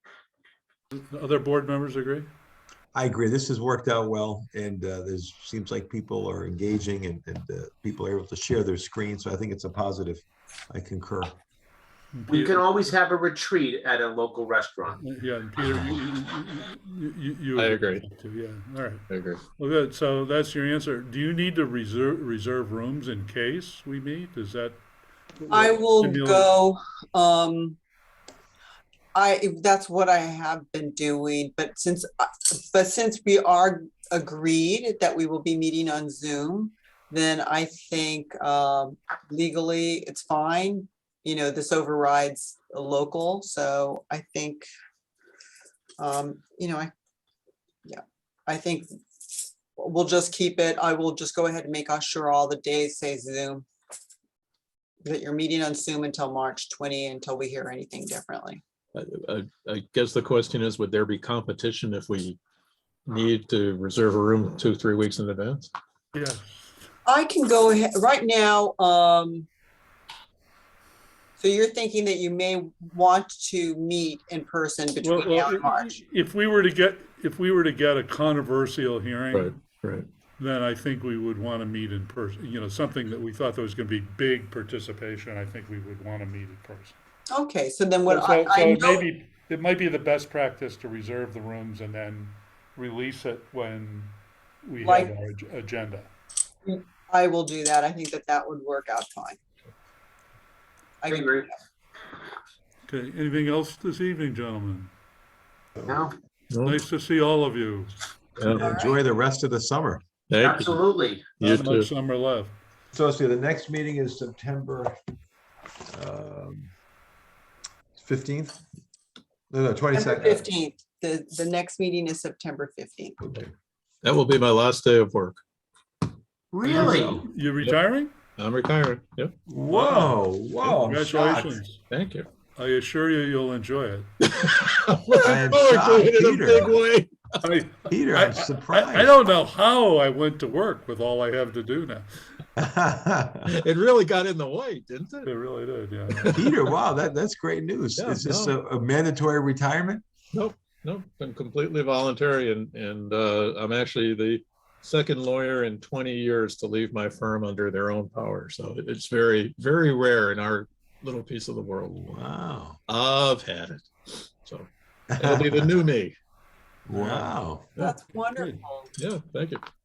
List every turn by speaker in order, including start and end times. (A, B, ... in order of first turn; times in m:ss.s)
0:00.9-0:02.3 A
0:02.9-0:11.4 B
0:12.1-0:12.6 A
0:12.3-0:15.0 C
0:15.0-0:24.8 A
0:17.6-0:18.0 D
0:19.1-0:19.4 D
0:25.4-0:26.5 A
0:25.5-0:27.8 E
0:29.1-0:44.7 E
0:46.0-0:46.9 E
0:47.9-0:53.7 E
0:55.0-0:58.6 E
0:58.9-1:02.4 D
1:03.1-1:05.7 D
1:06.1-1:06.8 A
1:07.1-1:09.5 E
1:11.4-1:16.0 E
1:15.0-1:19.6 A
1:19.3-1:20.1 D
1:20.4-1:27.0 A
1:27.3-1:29.1 E
1:28.1-1:36.1 A
1:34.8-1:35.1 E
1:36.7-1:39.4 E
1:41.0-1:41.5 E
1:41.1-1:41.5 C
1:42.9-1:44.9 A
1:45.8-1:46.1 C
1:46.5-1:46.8 D
1:46.6-1:48.0 A
1:48.4-1:48.7 D
1:48.5-1:50.0 B
1:48.5-1:49.0 E
1:50.3-1:50.8 D
1:50.4-1:51.3 C
1:51.4-1:51.9 D
1:51.4-1:52.6 A
1:52.9-1:55.0 B
1:55.9-1:56.7 B
1:58.0-1:58.6 B
1:59.5-2:00.5 B
1:59.9-2:03.2 E
2:03.2-2:03.5 B
2:04.0-2:05.4 D
2:06.5-2:07.2 C
2:06.6-2:07.3 B
2:06.7-2:08.2 A
2:08.4-2:09.3 D
2:09.5-2:11.6 B
2:09.7-2:11.8 A
2:11.9-2:12.3 D
2:12.6-2:14.1 A
2:14.2-2:17.4 D
2:15.2-2:16.8 B
2:17.4-2:22.1 A
2:17.9-2:19.2 B
2:22.6-2:23.5 B
2:23.4-2:25.3 D
2:25.2-2:26.4 A
2:26.1-2:26.6 D
2:26.3-2:30.0 B
2:28.0-2:28.6 D
2:30.3-2:42.2 D
2:42.0-2:42.8 B
2:42.9-2:46.2 D
2:45.1-2:45.7 B
2:46.9-2:47.7 B
2:46.9-2:47.3 A
2:47.8-2:48.9 E
2:48.4-2:48.6 A
2:49.0-2:49.6 D